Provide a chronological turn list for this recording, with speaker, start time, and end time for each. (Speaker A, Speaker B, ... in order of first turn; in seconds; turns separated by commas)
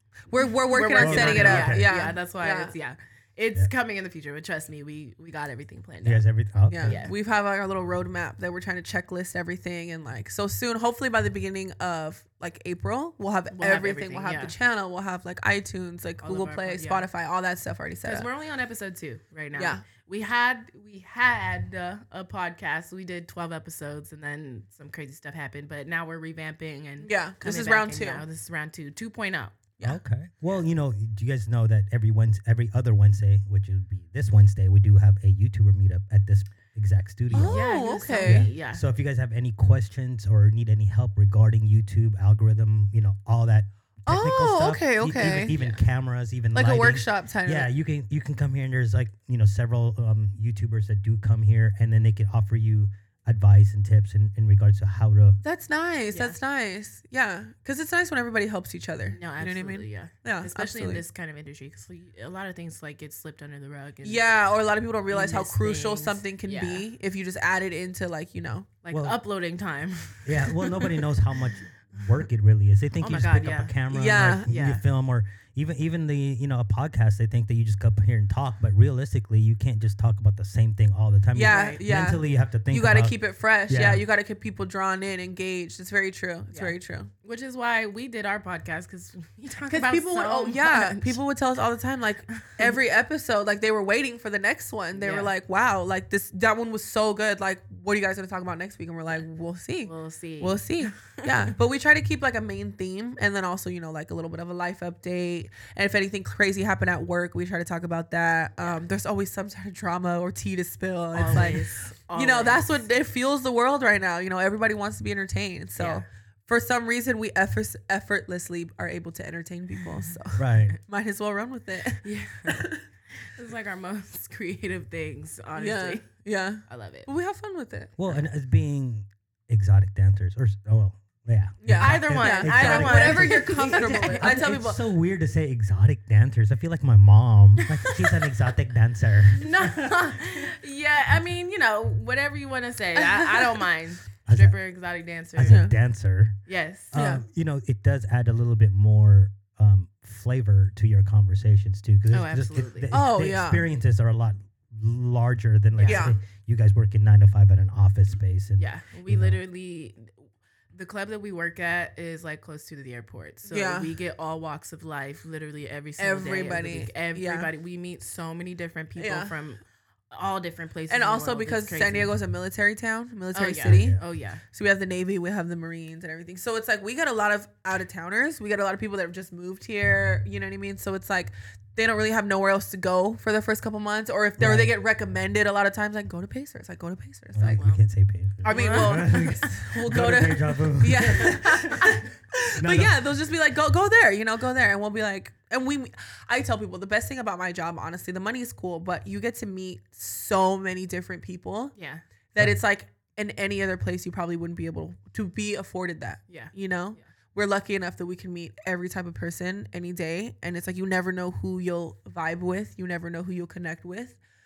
Speaker A: 0.3-2.7, Speaker B: 0.7-6.2, Speaker C: 1.0-1.9, Speaker C: 6.0-7.0, Speaker A: 6.7-18.3, Speaker B: 6.8-7.1, Speaker B: 13.5-14.5, Speaker B: 16.2-17.1, Speaker B: 18.0-29.6, Speaker A: 19.6-19.8, Speaker A: 27.0-28.2, Speaker C: 29.8-37.6, Speaker A: 37.3-38.5, Speaker B: 37.4-38.8, Speaker C: 38.2-55.4, Speaker A: 44.1-45.5, Speaker B: 45.5-45.8, Speaker A: 46.5-47.7, Speaker A: 55.4-61.0, Speaker B: 56.1-56.4, Speaker B: 59.1-64.2, Speaker A: 64.0-68.7, Speaker B: 65.1-66.8, Speaker B: 68.8-71.0, Speaker C: 68.9-69.2, Speaker C: 70.2-83.2, Speaker B: 73.0-73.7, Speaker A: 73.9-74.5, Speaker B: 74.5-74.8, Speaker A: 81.3-87.1, Speaker B: 81.4-81.8, Speaker C: 83.7-84.0, Speaker B: 86.5-91.2, Speaker A: 89.7-122.8, Speaker B: 92.4-92.7, Speaker B: 95.0-95.3, Speaker B: 99.8-101.5, Speaker B: 111.1-112.8, Speaker B: 115.8-116.0, Speaker C: 120.3-120.7, Speaker B: 122.0-122.6, Speaker B: 123.2-126.0, Speaker A: 125.6-127.9, Speaker B: 126.7-127.1, Speaker C: 128.0-140.0, Speaker A: 131.6-134.8, Speaker B: 131.7-134.4, Speaker B: 137.8-138.1, Speaker B: 139.3-145.7, Speaker A: 143.3-143.5, Speaker C: 144.3-144.6, Speaker C: 145.3-146.4, Speaker A: 145.4-145.7, Speaker B: 146.5-146.9, Speaker C: 146.9-159.4, Speaker A: 146.9-147.2, Speaker B: 152.1-152.9, Speaker A: 152.9-153.6, Speaker B: 155.8-156.1, Speaker A: 155.8-156.2, Speaker B: 158.6-160.1, Speaker B: 160.7-172.1, Speaker A: 163.5-163.9, Speaker A: 166.0-167.5, Speaker A: 169.0-169.3, Speaker A: 170.9-187.6, Speaker B: 173.3-174.4, Speaker C: 173.7-174.0, Speaker C: 184.4-184.8, Speaker C: 187.3-192.0, Speaker B: 187.4-187.8, Speaker B: 188.4-189.7, Speaker A: 188.4-201.7, Speaker B: 191.3-191.9, Speaker C: 192.6-193.0, Speaker B: 201.8-202.0, Speaker A: 202.3-214.2, Speaker B: 206.3-207.0